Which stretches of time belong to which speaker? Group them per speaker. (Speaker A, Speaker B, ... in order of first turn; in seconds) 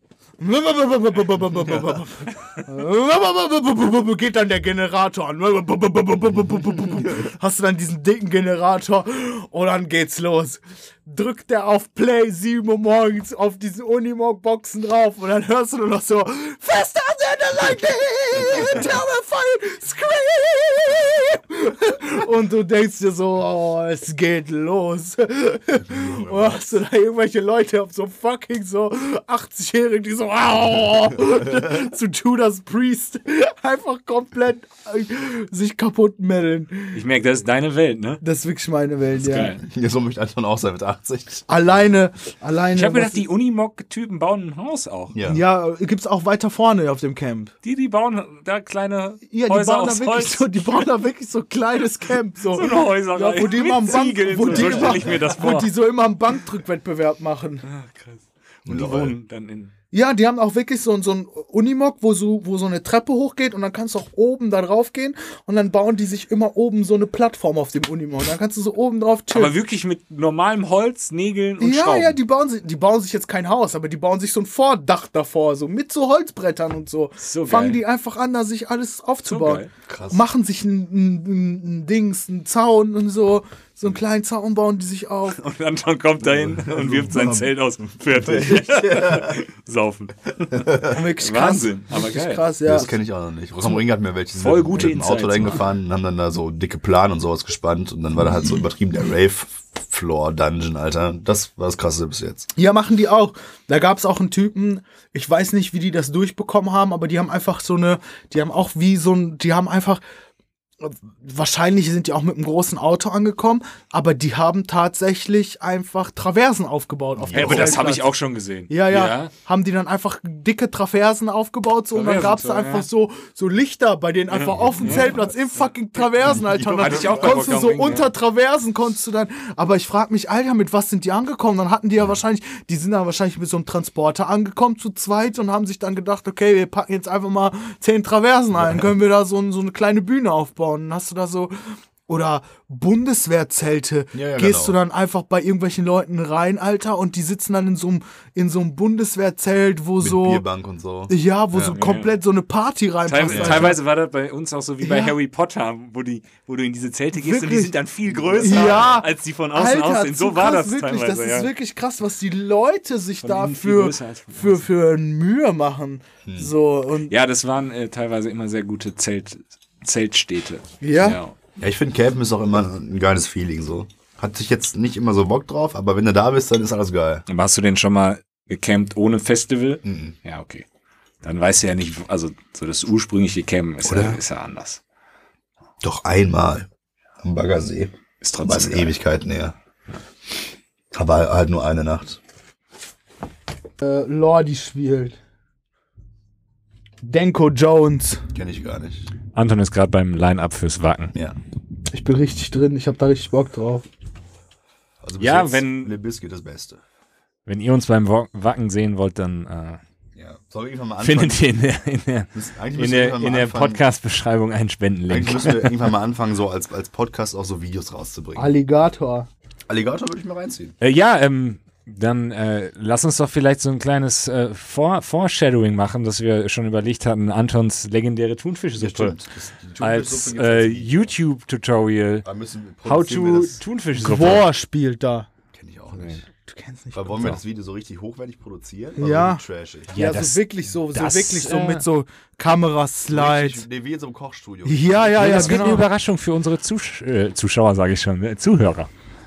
Speaker A: 0.4-37.0, 38.2-39.6, 41.5-43.3, 45.3-47.5, 49.3-57.7, 59.9-69.5, 71.6-85.4, 90.8-92.9, 102.6-110.0, 110.8-118.1, 118.7-141.6, 142.1-150.4, 151.1-153.8, 154.8-155.2, 157.2-157.7, 158.4-167.1, 170.8-171.2, 193.8-195.2, 197.0-198.3, 201.9-203.9, 218.4-219.3, 233.9-235.3, 236.5-237.4, 239.0-243.6, 244.7-245.9
Speaker B: 25.8-26.6, 39.6-41.5, 45.1-45.4, 54.4-55.2, 58.7-59.2, 79.8-80.2, 86.2-89.4, 90.5-91.0, 92.6-102.5, 117.2-117.9, 126.3-127.4, 138.6-138.9, 144.1-144.8, 150.0-151.1, 153.3-153.8, 158.1-159.0, 166.2-166.5, 171.6-177.2, 179.8-180.2, 183.8-184.2, 185.8-186.7, 187.2-189.6, 190.9-192.2, 198.3-199.1, 205.0-206.8, 210.2-211.5, 212.3-213.8, 215.1-218.5, 219.7-220.8, 228.8-231.1, 232.2-233.6, 235.5-236.2, 236.9-239.9, 243.1-245.7
Speaker C: 36.9-38.2, 39.2-39.6, 42.7-45.2, 47.6-50.6, 52.5-55.7, 57.6-59.7, 69.3-72.2, 77.2-77.8, 79.3-79.7, 85.3-92.4, 94.4-95.7, 117.3-119.3, 121.9-122.9, 124.3-125.2, 126.8-128.1, 151.6-152.1, 153.1-161.5, 163.2-164.6, 167.1-171.3, 177.3-180.7, 181.2-184.8, 188.2-189.0, 199.3-201.1, 205.2-205.9, 207.5-209.8, 211.0-215.8, 220.8-229.2, 229.8-232.3, 232.8-234.5, 235.9-236.2, 239.9-241.8, 245.2-248.9